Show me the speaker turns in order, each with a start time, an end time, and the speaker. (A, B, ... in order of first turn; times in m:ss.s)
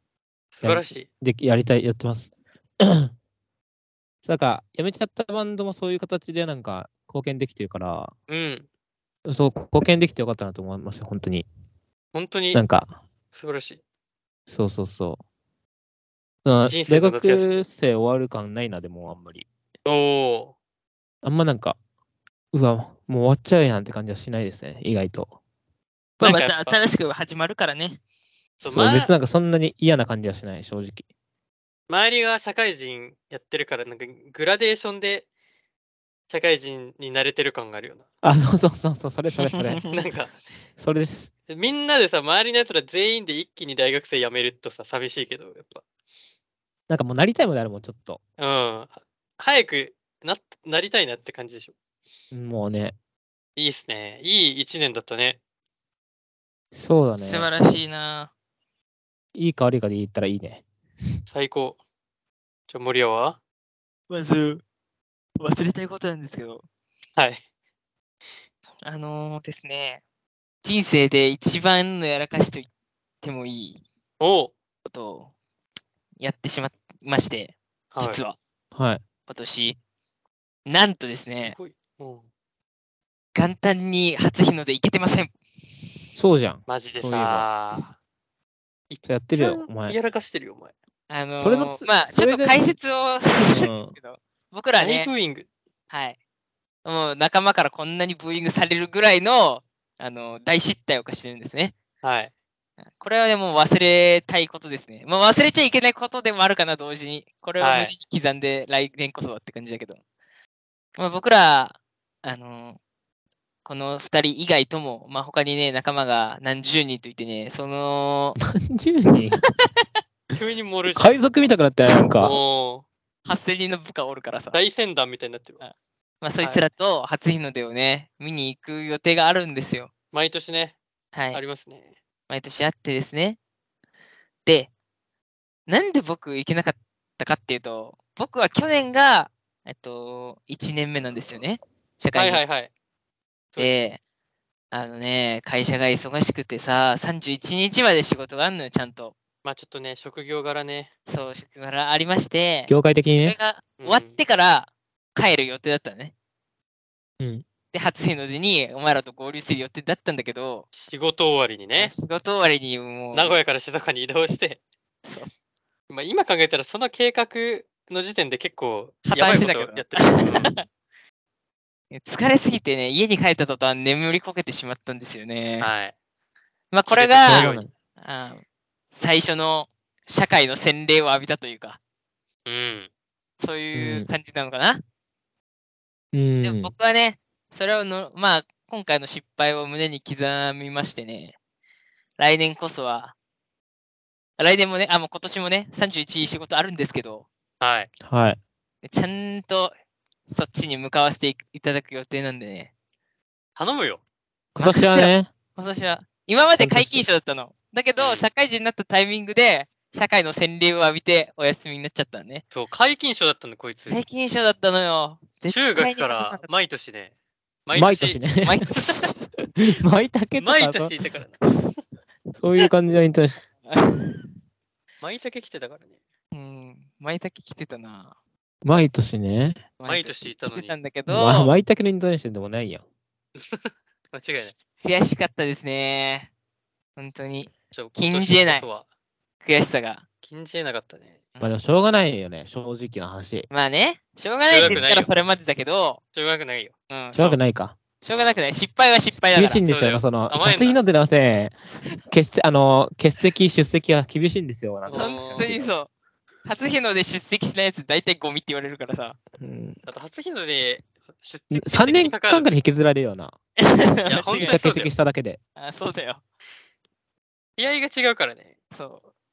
0:00.5-0:01.1 A
0:00.6-0:03.1 B
0:04.2-0:08.1 B
0:08.3-0:08.6 A
0:09.2-0:11.4 B
0:12.1-0:12.6 A
0:12.5-0:12.9 B
0:13.3-0:13.8 A
0:14.5-0:15.2 B
0:16.4-0:19.4 B
0:16.6-0:17.6 A
0:19.8-0:20.5 A
0:21.2-0:21.8 B
0:22.5-0:25.3 B
0:26.2-0:26.8 A
0:26.2-0:28.0 C
0:28.6-0:29.1 A
0:28.6-0:31.0 B
0:31.9-0:35.2 A
0:36.3-0:38.0 A
0:38.2-0:39.9 B
0:39.4-0:39.8 C
0:39.9-0:40.3 A
0:40.8-0:41.3 B
0:41.5-0:45.8 A
0:46.9-0:48.2 B
0:48.4-0:51.7 A
0:52.3-0:52.9 B
0:53.6-0:55.4 A
0:56.7-0:57.5 B
0:57.1-0:58.3 C
0:59.3-1:00.6 B
1:01.3-1:01.8 A
1:02.7-1:03.4 A
1:04.1-1:04.6 C
1:05.4-1:06.6 C
1:07.2-1:07.4 A
1:08.8-1:10.0 C
1:10.6-1:12.7 C
1:13.2-1:13.8 C
1:14.2-1:14.5 A
1:14.8-1:15.3 C
1:16.2-1:18.4 C
1:17.9-1:18.2 A
1:18.7-1:19.0 B
1:19.3-1:19.8 C
1:20.7-1:21.6 C
1:21.4-1:22.2 A
1:23.3-1:26.0 C
1:26.2-1:27.5 B
1:26.7-1:27.9 A
1:28.9-1:30.7 A
1:29.0-1:30.0 B
1:31.1-1:35.1 C
1:31.4-1:32.6 B
1:33.4-1:33.9 B
1:34.8-1:35.5 A
1:35.9-1:36.2 C
1:36.8-1:41.7 C
1:42.0-1:42.3 A
1:43.0-1:50.0 C
1:47.6-1:47.9 A
1:51.0-1:52.8 C
1:53.6-1:58.4 C
1:58.4-1:59.4 B
1:59.4-1:59.8 C
2:00.3-2:01.2 A
2:00.9-2:02.4 B
2:02.2-2:02.8 A
2:03.2-2:04.6 C
2:04.5-2:05.6 A
2:05.6-2:09.9 C
2:06.4-2:06.6 A
2:10.1-2:10.7 A
2:11.1-2:11.4 C
2:11.3-2:11.9 A
2:12.3-2:13.4 C
2:14.4-2:14.7 C
2:15.7-2:22.4 C
2:22.1-2:22.7 A
2:23.6-2:24.0 C
2:24.7-2:29.1 C
2:29.4-2:30.9 A
2:31.1-2:36.1 C
2:32.7-2:33.4 B
2:33.8-2:34.2 A
2:37.2-2:37.4 B
2:37.7-2:40.7 C
2:40.7-2:41.9 A
2:41.7-2:43.4 C
2:43.1-2:44.6 A
2:45.9-2:50.6 A
2:49.0-2:50.6 C
2:51.9-2:55.7 C
2:55.6-2:55.9 A
2:56.7-3:01.8 C
2:56.9-2:57.6 A
2:57.3-2:57.7 B
3:02.4-3:02.9 A
3:03.4-3:04.8 C
3:03.7-3:04.1 B
3:06.1-3:06.7 B
3:06.4-3:11.4 C
3:12.2-3:13.1 C
3:14.4-3:17.3 C
3:17.6-3:17.9 A
3:18.0-3:18.4 B
3:18.8-3:19.7 C
3:20.3-3:22.7 C
3:23.6-3:24.0 A
3:24.5-3:25.3 B
3:24.6-3:32.4 C
3:26.6-3:27.1 B
3:28.0-3:28.2 A
3:32.5-3:34.0 A
3:33.9-3:36.5 C
3:35.5-3:37.1 A
3:37.6-3:38.2 A
3:37.7-3:40.9 B
3:38.4-3:39.3 C
3:40.4-3:41.4 A
3:42.3-3:43.4 B
3:43.6-3:44.3 C
3:45.0-3:46.0 A
3:46.3-3:48.1 C
3:48.6-3:49.6 B
3:49.8-3:51.5 C
3:49.8-3:50.8 A
3:51.1-3:52.8 B
3:53.4-3:54.6 A
3:54.8-3:56.3 C
3:57.0-3:58.6 C
3:57.7-3:58.8 A
3:59.4-4:00.0 C
4:00.2-4:01.2 A
4:01.4-4:03.5 B
4:03.5-4:06.0 C
4:04.5-4:05.1 A
4:06.1-4:06.7 A
4:06.9-4:07.4 C
4:07.1-4:07.8 B
4:08.0-4:09.6 C
4:08.1-4:08.4 A
4:09.1-4:15.7 B
4:09.6-4:10.8 A
4:11.7-4:12.0 C
4:14.8-4:15.5 A
4:14.9-4:15.9 C
4:16.4-4:19.2 C
4:19.4-4:19.8 B
4:19.8-4:22.5 A
4:21.5-4:23.3 B
4:23.6-4:24.6 C
4:24.0-4:24.9 A
4:24.4-4:25.4 B
4:25.6-4:26.2 C
4:27.6-4:28.6 A
4:28.7-4:29.0 C